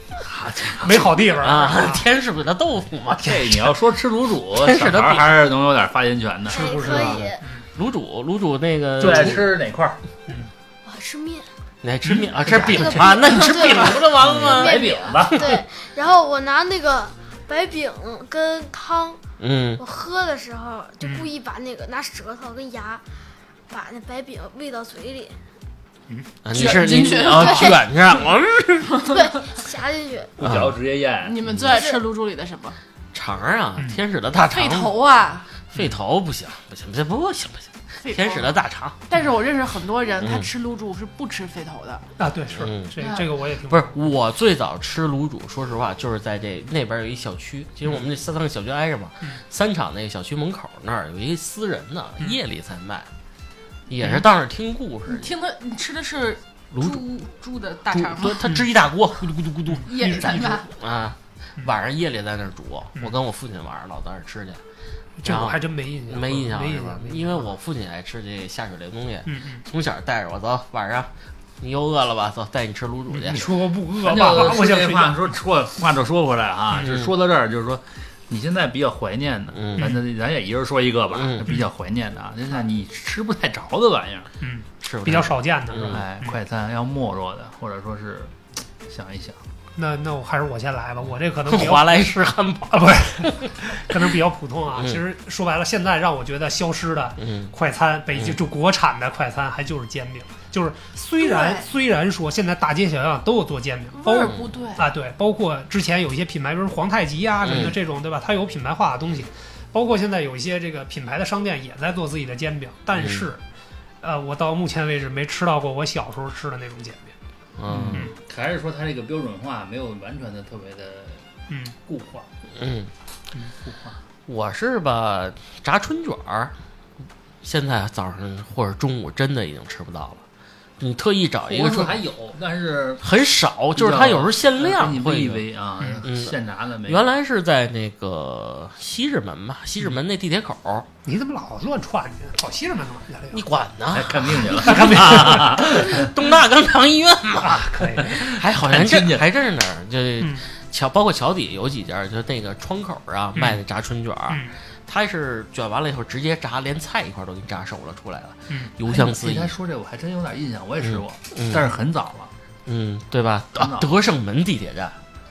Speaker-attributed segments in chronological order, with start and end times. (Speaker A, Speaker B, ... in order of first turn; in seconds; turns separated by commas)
Speaker A: 0.2-1.1, Speaker B: 0.8-2.0, Speaker C: 1.4-3.7, Speaker A: 3.2-7.3, Speaker C: 4.6-5.4, Speaker D: 6.5-7.4, Speaker B: 6.5-7.3, Speaker C: 7.7-9.6, Speaker A: 9.0-10.0, Speaker D: 10.9-11.5, Speaker C: 11.8-15.4, Speaker D: 12.5-19.2, Speaker A: 12.6-13.0, Speaker A: 14.2-15.6, Speaker C: 19.4-19.8, Speaker D: 19.8-23.0, Speaker D: 23.7-25.4, Speaker C: 26.4-29.1, Speaker E: 26.5-28.1, Speaker D: 27.3-27.7, Speaker E: 29.0-29.4, Speaker D: 29.3-30.4, Speaker A: 30.4-31.4, Speaker C: 30.4-30.7, Speaker E: 31.2-32.8, Speaker D: 31.7-32.0, Speaker C: 33.1-34.9, Speaker E: 34.5-35.5, Speaker C: 35.7-39.0, Speaker E: 38.0-42.0, Speaker C: 40.2-40.5, Speaker B: 42.2-44.0, Speaker C: 42.6-42.9, Speaker E: 43.0-43.3, Speaker C: 43.7-53.1, Speaker C: 53.9-55.3, Speaker E: 55.1-58.5, Speaker C: 56.7-57.1, Speaker C: 57.9-64.6, Speaker B: 59.7-60.3, Speaker E: 59.9-60.7, Speaker B: 65.2-67.5, Speaker C: 65.2-73.5, Speaker B: 69.3-69.6, Speaker B: 73.1-75.2, Speaker A: 73.3-84.3, Speaker C: 76.8-77.1, Speaker C: 79.5-80.0, Speaker C: 81.1-81.5, Speaker B: 84.4-86.3, Speaker C: 84.8-86.0, Speaker A: 85.9-88.3, Speaker A: 88.9-89.4, Speaker B: 89.8-92.1, Speaker C: 91.5-93.3, Speaker B: 92.7-113.4, Speaker C: 94.8-95.0, Speaker C: 97.2-97.5, Speaker E: 101.2-101.7, Speaker E: 104.0-104.8, Speaker C: 107.4-107.8, Speaker C: 113.0-113.3, Speaker B: 114.0-117.1, Speaker C: 117.6-118.1, Speaker A: 117.7-121.2, Speaker A: 121.8-122.3, Speaker C: 122.5-122.9, Speaker A: 123.6-124.0, Speaker C: 124.3-126.5, Speaker C: 127.4-130.2, Speaker C: 130.8-132.0, Speaker A: 131.5-133.1, Speaker C: 133.0-135.4, Speaker A: 133.8-137.0, Speaker C: 136.0-140.9, Speaker B: 141.1-143.4, Speaker C: 143.3-159.5, Speaker A: 143.9-146.1, Speaker B: 144.7-145.5, Speaker B: 147.4-148.1, Speaker A: 148.1-149.2, Speaker B: 153.4-153.6, Speaker A: 158.8-162.3, Speaker C: 160.8-161.7, Speaker C: 162.7-165.0, Speaker A: 163.6-163.9